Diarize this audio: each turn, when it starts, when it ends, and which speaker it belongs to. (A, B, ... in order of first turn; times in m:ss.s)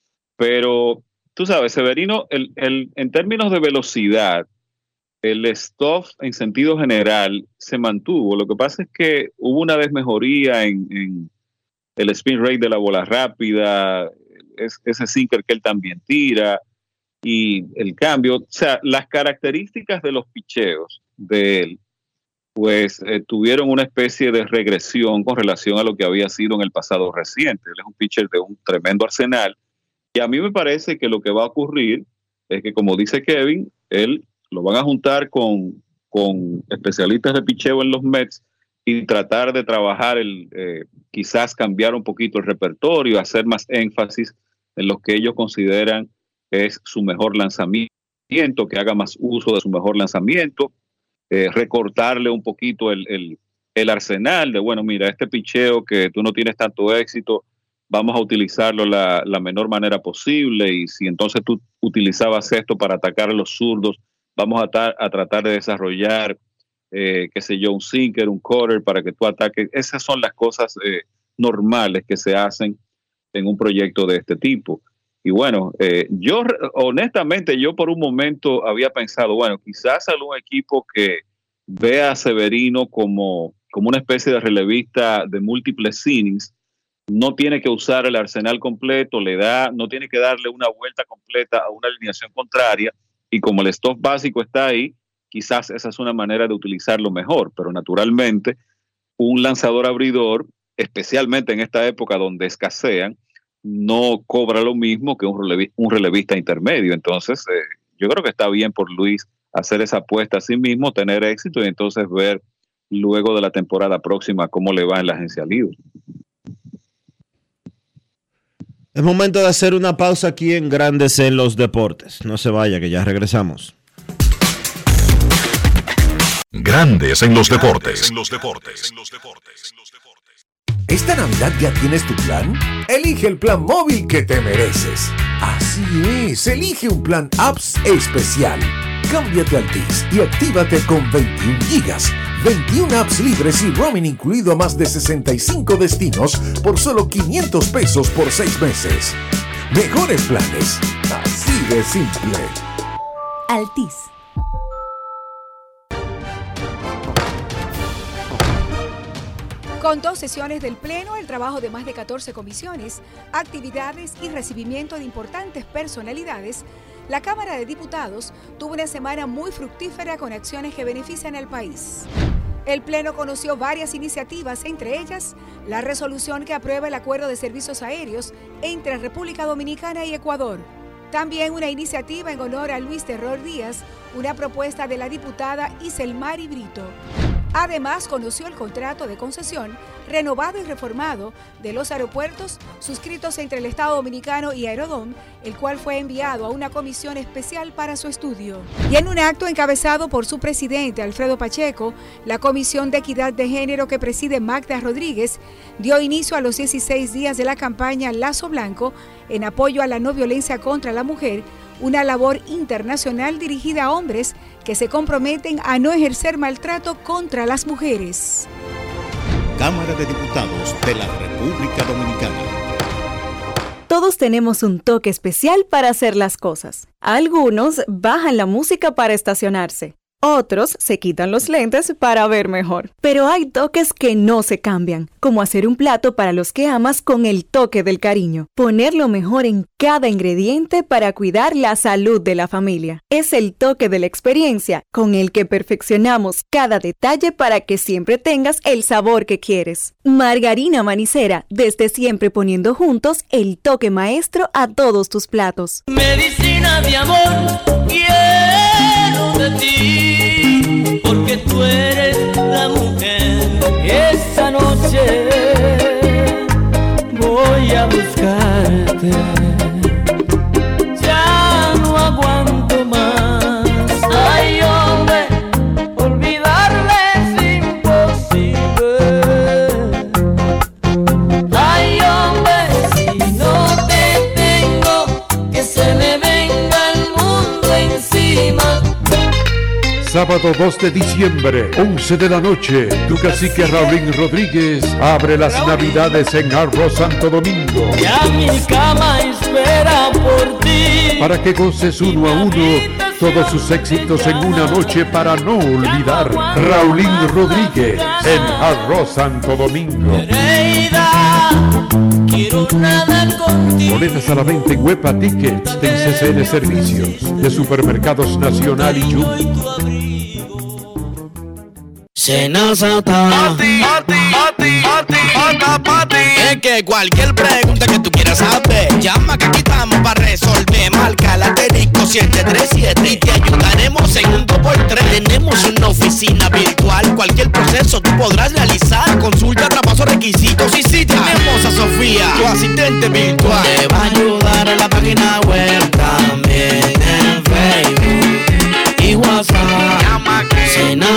0:00.4-0:04.4 A
0:05.2-0:11.3 A
0:12.0-0:16.6 A
0:17.2-0:21.8 A
0:22.6-0:29.6 A
0:30.1-0:50.7 A
0:51.3-1:06.4 A
1:06.9-1:12.8 A
1:13.3-1:26.5 A
1:27.1-1:38.6 A
1:39.2-1:55.7 A
1:58.9-2:03.7 B
2:06.5-2:09.9 C
2:10.9-2:29.2 D
2:29.7-2:32.6 D
2:33.5-2:34.1 E
2:39.8-2:52.1 F
2:52.6-3:06.9 F
3:07.5-3:38.5 F
3:39.6-3:42.8 G
3:43.9-4:15.8 E
4:15.9-4:26.4 H
4:27.1-4:29.9 H
4:30.9-4:40.2 H
4:41.5-4:49.0 H
4:50.0-4:58.0 I
4:53.1-4:54.0 H
4:55.3-4:56.2 H
4:58.0-5:01.3 H
5:01.2-5:10.3 I
5:02.0-5:08.9 H
5:10.1-5:14.3 H
5:13.9-5:19.5 I
5:15.6-5:17.7 H
5:18.7-5:20.8 H
5:26.3-5:45.4 J
5:49.9-5:50.9 J